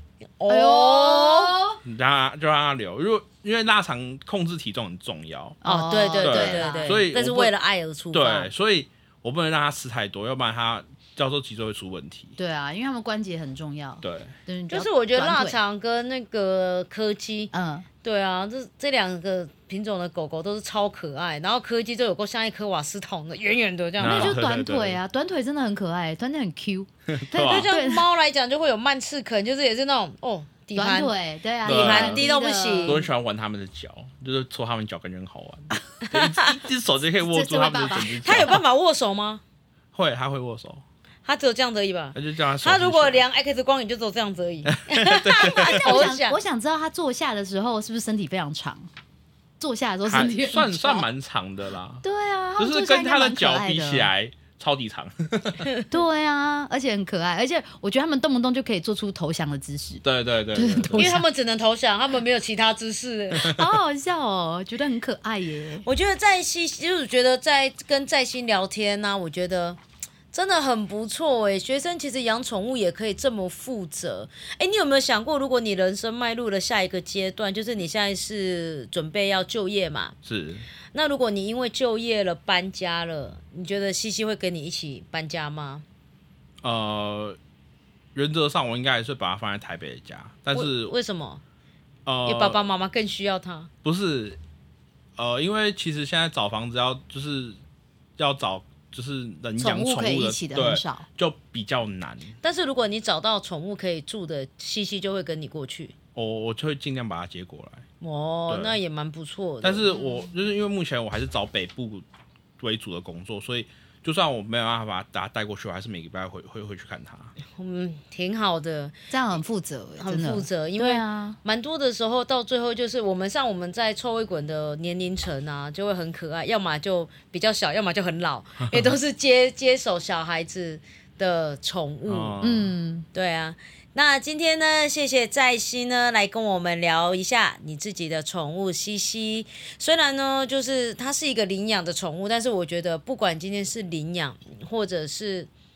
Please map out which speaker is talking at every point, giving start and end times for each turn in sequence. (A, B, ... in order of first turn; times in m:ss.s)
0:00.4-0:01.5 A
0:00.5-0:01.8 B
0:01.8-0:05.6 C
0:05.6-0:07.0 B
0:05.6-0:08.5 A
0:06.2-0:07.5 C
0:08.1-0:12.4 C
0:12.4-0:15.6 B
0:14.0-0:14.4 C
0:14.7-0:17.5 A
0:17.5-0:17.9 B
0:18.0-0:24.4 A
0:24.0-0:25.0 C
0:24.0-0:28.0 B
0:27.1-0:27.7 C
0:27.4-0:31.1 A
0:30.8-0:33.1 B
0:31.6-0:32.3 C
0:31.6-0:33.0 A
0:32.8-0:38.6 C
0:36.1-0:36.5 A
0:37.2-0:38.6 B
0:38.2-0:39.4 A
0:39.9-0:40.8 C
0:41.2-0:46.4 A
0:42.2-0:43.2 C
0:44.7-0:46.1 C
0:45.4-0:48.9 B
0:49.6-0:51.1 B
0:50.0-0:52.0 C
0:52.0-0:54.1 B
0:52.6-0:55.7 C
0:55.9-1:01.2 B
1:00.0-1:01.2 C
1:01.0-1:03.5 A
1:03.4-1:05.8 B
1:05.8-1:09.8 A
1:10.3-1:20.2 A
1:20.2-1:20.7 C
1:20.9-1:25.8 A
1:26.6-1:27.4 C
1:28.2-1:30.9 C
1:30.5-1:31.4 A
1:32.1-1:32.6 C
1:32.2-1:33.7 A
1:33.8-1:34.4 C
1:35.2-1:37.6 C
1:38.2-1:42.4 C
1:39.6-1:41.1 B
1:42.4-1:45.9 A
1:46.2-1:47.8 C
1:48.0-1:49.9 A
1:48.5-1:48.8 C
1:49.6-1:52.1 C
1:52.6-1:57.3 C
1:57.5-1:59.0 A
1:59.1-2:01.4 B
2:00.0-2:12.4 A
2:12.1-2:12.7 C
2:12.4-2:13.1 B
2:13.1-2:25.5 A